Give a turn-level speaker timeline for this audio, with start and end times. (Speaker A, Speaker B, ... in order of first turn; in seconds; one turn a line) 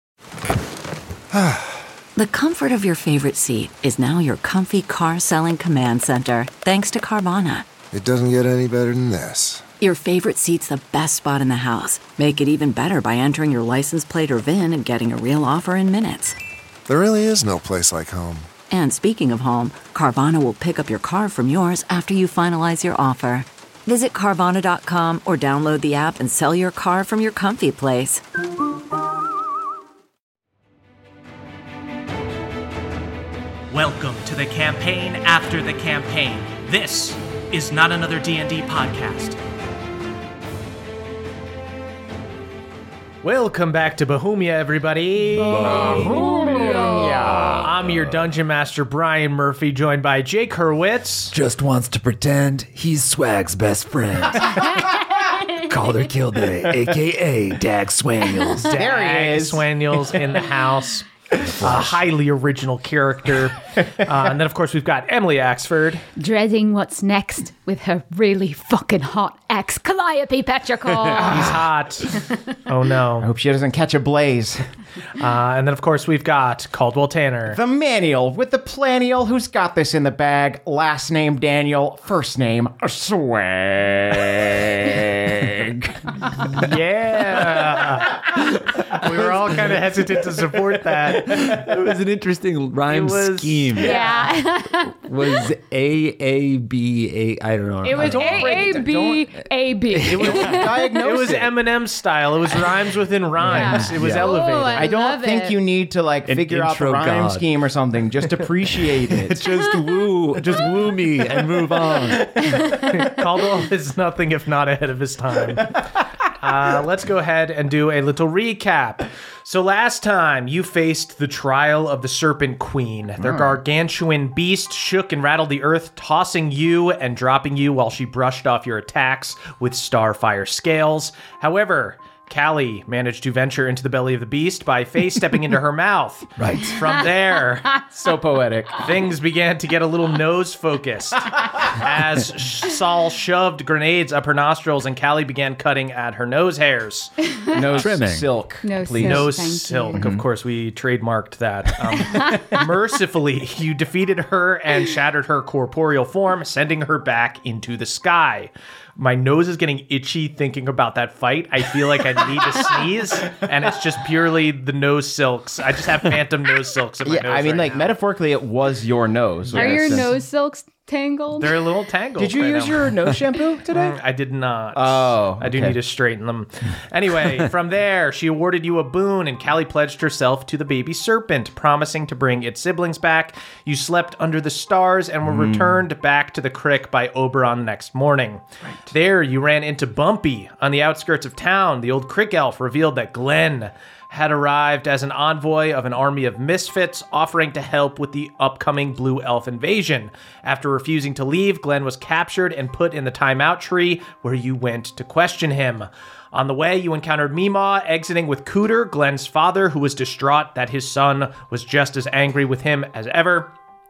Speaker A: 1.3-1.8
Speaker B: 2.1-7.7
Speaker A: 7.9-9.7
Speaker B: 9.8-16.4
Speaker A: 16.9-18.5
Speaker B: 18.7-28.2
Speaker C: 33.7-39.4
Speaker C: 43.2-46.2
Speaker D: 45.5-47.7
Speaker E: 45.6-47.3
Speaker C: 47.5-51.3
Speaker F: 51.3-58.8
Speaker D: 58.7-59.7
Speaker C: 58.7-66.0
Speaker F: 61.6-61.9
Speaker E: 66.2-71.4
Speaker C: 71.2-73.3
Speaker D: 71.2-71.6
Speaker D: 73.2-74.6
Speaker C: 75.1-77.6
Speaker D: 77.5-86.1
Speaker C: 86.4-91.5
Speaker G: 91.2-94.3
Speaker C: 92.9-94.2
Speaker E: 93.8-95.4
Speaker G: 94.9-98.9
Speaker E: 97.8-100.8
Speaker C: 97.9-99.1
Speaker D: 100.1-101.5
Speaker C: 100.3-104.9
Speaker E: 103.4-105.6
Speaker G: 103.5-104.5
Speaker D: 104.7-109.5
Speaker G: 106.3-107.5
Speaker G: 109.0-112.6
Speaker C: 112.6-137.8
Speaker F: 136.4-136.8
Speaker D: 137.9-138.9
Speaker C: 138.8-147.1
Speaker D: 147.5-149.4
Speaker G: 147.7-148.3
Speaker E: 148.6-150.0
Speaker C: 148.9-167.9
Speaker D: 149.9-150.2
Speaker D: 167.0-170.1
Speaker C: 169.5-170.0
Speaker E: 169.5-171.6
Speaker C: 171.4-172.9
Speaker D: 172.2-174.0
Speaker C: 173.7-213.5
Speaker D: 174.7-175.8
Speaker D: 185.2-185.8